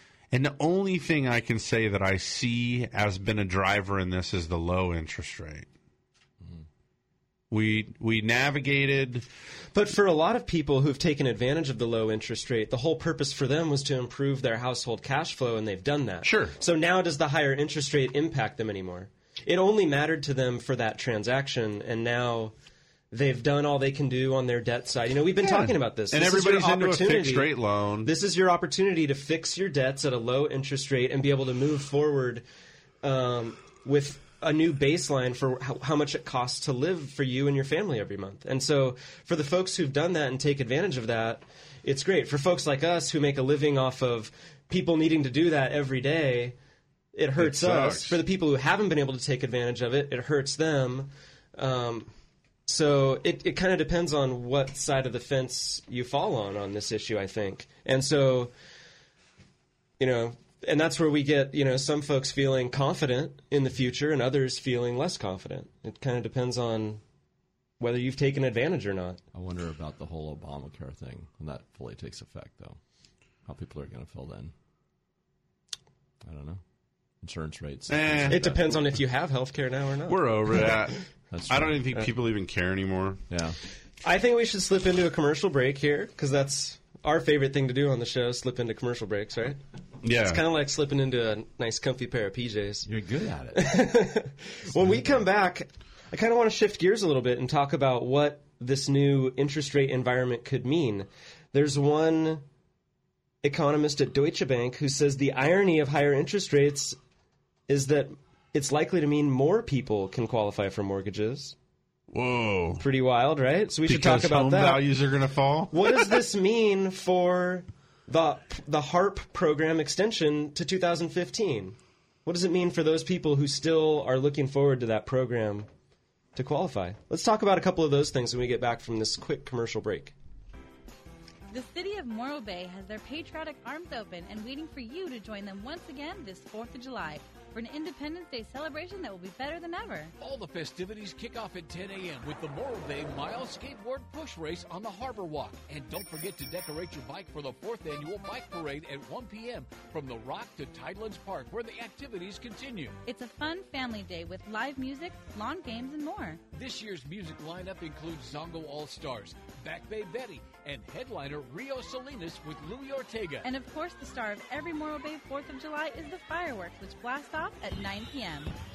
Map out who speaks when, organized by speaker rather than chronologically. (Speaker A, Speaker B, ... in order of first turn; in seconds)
Speaker A: 0.3-5.7, 7.5-9.2, 16.2-16.6, 25.4-28.1, 47.4-48.2, 77.9-78.4, 80.1-83.2, 90.0-90.4, 112.1-112.8, 113.8-116.2
Speaker B: 9.7-22.5, 23.1-32.4, 33.0-46.6, 47.1-52.1, 52.6-58.5, 60.0-67.0, 67.8-69.2, 78.3-80.7, 84.0-89.6, 90.1-92.9, 93.5-102.4, 103.4-107.0, 107.7-111.5, 112.8-114.8, 115.7-125.7, 126.3-130.1
Speaker C: 69.3-72.8, 73.5-74.5, 76.2-76.6, 77.2-78.9, 81.3-82.0, 83.3-83.6, 92.8-93.8
Speaker D: 131.5-140.1, 153.1-156.4, 163.4-168.6
Speaker E: 140.2-153.0, 156.5-163.5